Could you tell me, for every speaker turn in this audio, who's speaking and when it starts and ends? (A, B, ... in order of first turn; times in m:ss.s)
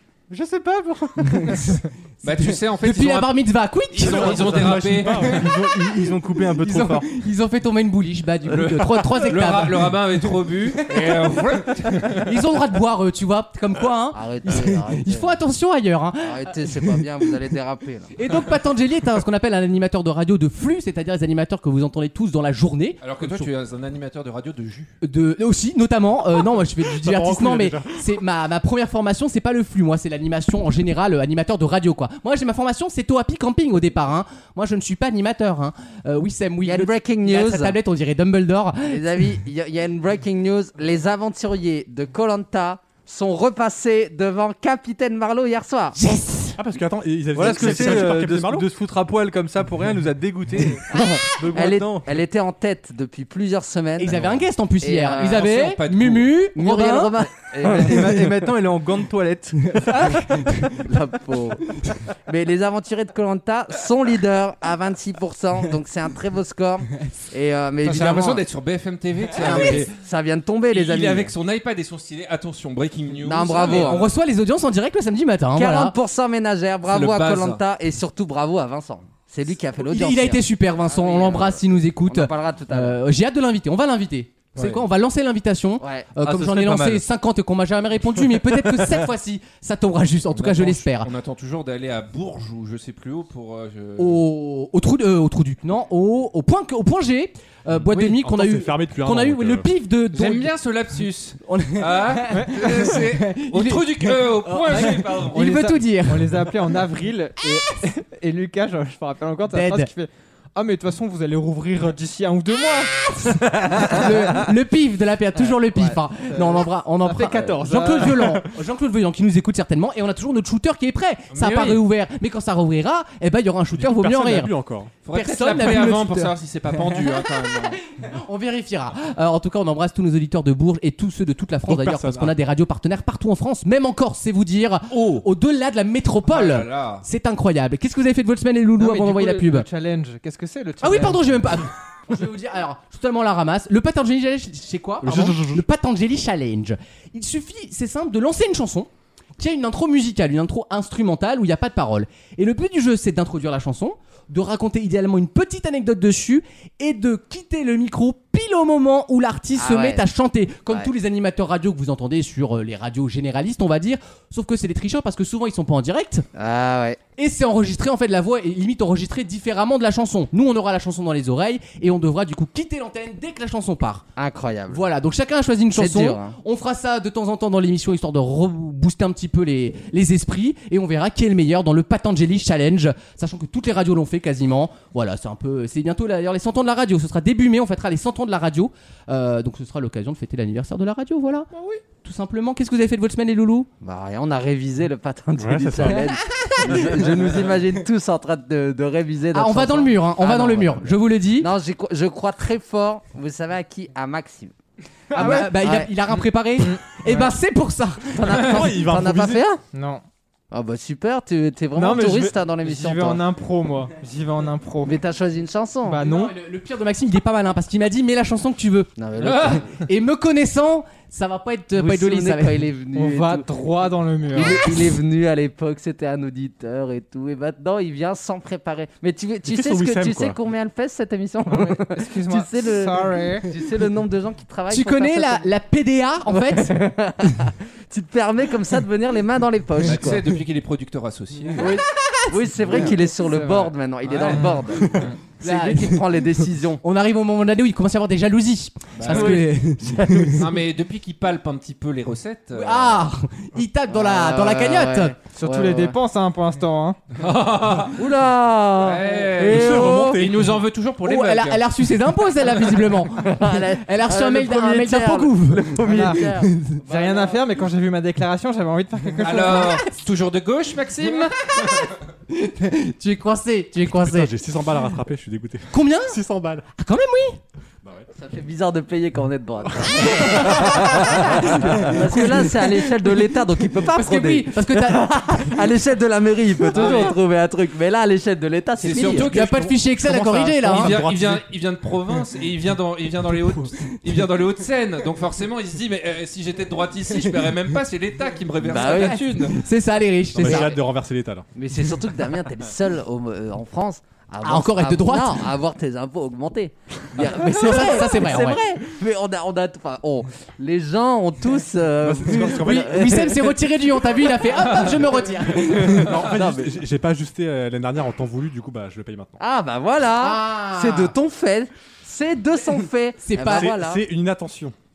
0:00.3-0:01.7 A
0:01.2-0:04.4 B
0:02.2-0:05.4 C
0:04.0-0:05.5 D
0:04.0-0:07.1 A
0:06.6-0:11.1 B
0:08.5-0:12.3 C
0:12.2-0:17.0 B
0:14.1-0:15.4 E
0:16.2-0:18.1 E
0:18.1-0:23.0 B
0:23.0-0:24.9 C
0:23.2-0:23.5 D
0:25.0-0:39.0 B
0:26.9-0:28.2 D
0:36.6-0:37.8 E
0:38.8-0:46.0 E
0:46.0-0:46.6 B
0:46.6-0:48.7 D
0:47.3-0:52.0 A
0:47.5-0:47.9 B
0:50.9-0:55.4 E
0:54.0-0:57.1 B
0:55.2-0:56.4 C
0:56.5-0:58.4 E
0:57.6-1:00.5 A
0:59.9-1:00.8 B
1:00.8-1:08.4 E
1:07.8-1:09.9 C
1:09.4-1:11.3 E
1:09.4-1:09.8 B
1:10.7-1:14.0 C
1:13.1-1:14.1 E
1:13.6-1:15.9 B
1:15.5-1:23.0 E
1:16.8-1:17.6 C
1:19.9-1:31.1 B
1:25.8-1:26.1 E
1:26.2-1:27.0 A
1:30.3-1:34.2 C
1:34.0-1:40.5 B
1:38.0-1:39.7 D
1:40.1-1:45.4 C
1:41.4-1:46.3 B
1:42.3-1:42.6 F
1:44.7-1:53.2 F
1:49.5-1:49.9 B
1:53.6-2:04.5 B
1:55.8-1:58.4 F
2:01.3-2:01.8 C
2:03.7-2:04.9 D
2:05.0-2:07.8 C
2:05.1-2:07.2 B
2:07.9-2:19.7 B
2:11.6-2:12.4 D
2:16.2-2:17.0 C
2:18.8-2:21.5 F
2:20.8-2:46.2 B
2:25.0-2:25.6 D
2:39.5-2:40.0 E
2:46.3-2:47.0 E
2:47.2-2:54.0 B
2:54.2-2:54.8 E
2:54.7-3:13.7 B
2:55.7-2:56.4 E
3:11.5-3:11.8 F
3:13.8-3:24.5 E
3:15.3-3:17.0 D
3:19.3-3:21.5 B
3:25.1-3:25.6 F
3:25.1-3:28.1 B
3:25.2-3:25.9 E
3:26.6-3:27.3 F
3:28.1-3:29.6 E
3:28.3-3:29.4 D
3:29.7-3:30.0 F
3:30.5-3:33.2 E
3:31.7-3:35.0 F
3:34.8-3:36.0 E
3:35.8-3:36.3 F
3:36.0-3:42.6 B
3:39.0-3:39.7 E
3:39.2-3:39.6 C
3:41.7-3:43.5 E
3:42.9-3:44.7 F
3:44.3-3:55.5 E
3:49.4-3:50.4 D
3:51.6-3:53.5 F
3:54.7-3:56.7 B
3:56.3-4:00.3 E
3:59.8-4:01.7 C
4:01.6-4:06.8 E
4:01.9-4:02.3 B
4:02.6-4:05.2 F
4:04.0-4:04.6 C
4:05.4-4:06.0 B
4:06.8-4:10.4 B
4:09.0-4:09.4 C
4:09.0-4:10.3 E
4:10.2-4:13.0 C
4:12.5-4:15.2 B
4:13.9-4:16.0 E
4:15.3-4:17.0 F
4:17.2-4:18.0 C
4:17.9-4:20.2 E
4:18.8-4:21.6 C
4:19.4-4:20.4 D
4:21.0-4:26.8 B
4:23.1-4:27.5 E
4:25.8-4:29.8 F
4:29.2-4:31.9 C
4:31.1-4:34.3 B
4:33.9-4:36.6 D
4:35.7-4:36.2 B
4:36.7-4:37.4 B
4:38.1-4:49.3 E
4:40.5-4:41.9 B
4:43.9-4:45.5 B
4:46.7-4:47.2 C
4:48.8-4:49.7 C
4:49.0-4:51.0 B
4:50.3-4:51.4 D
4:50.6-4:59.6 C
4:58.6-4:59.6 E
4:59.0-5:00.8 B
5:00.4-5:01.4 D
5:00.4-5:00.7 E
5:01.6-5:13.6 E
5:04.4-5:05.5 B
5:07.3-5:08.6 B
5:12.0-5:13.4 D
5:12.3-5:16.1 B
5:15.6-5:19.4 D
5:16.1-5:16.8 E
5:19.4-5:24.0 E
5:20.2-5:21.1 B
5:23.2-5:23.7 B
5:23.4-5:24.7 D